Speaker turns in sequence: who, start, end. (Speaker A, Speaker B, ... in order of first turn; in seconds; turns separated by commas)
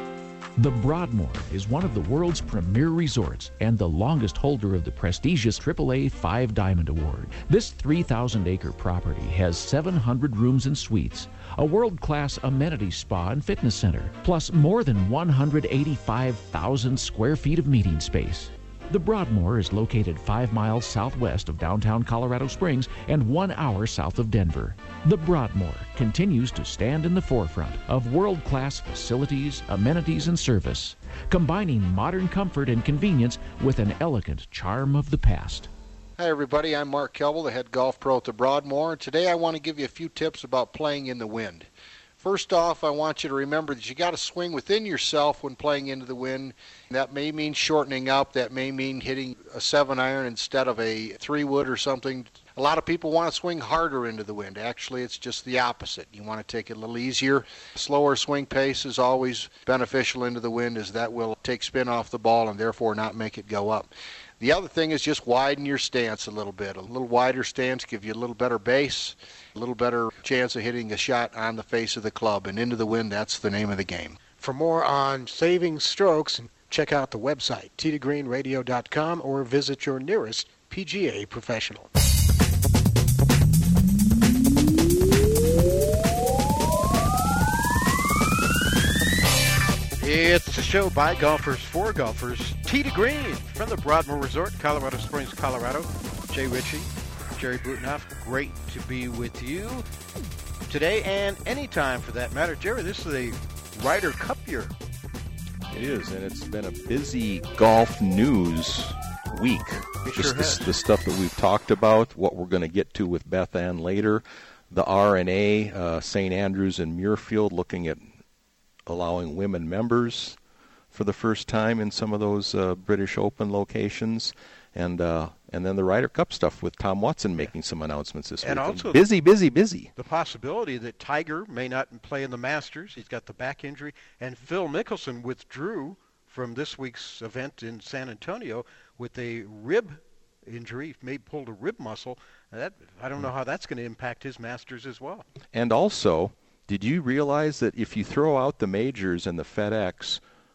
Speaker A: 0.6-35.7, Speaker B: 36.2-41.7, Speaker B: 42.2-74.2, Speaker C: 74.3-81.9, Speaker D: 90.0-99.8, Speaker D: 100.7-104.7, Speaker E: 105.7-118.1, Speaker D: 110.0-110.6, Speaker E: 118.9-120.4, Speaker E: 120.9-129.9, Speaker D: 128.4-129.1, Speaker D: 130.0-145.3, Speaker E: 145.5-150.2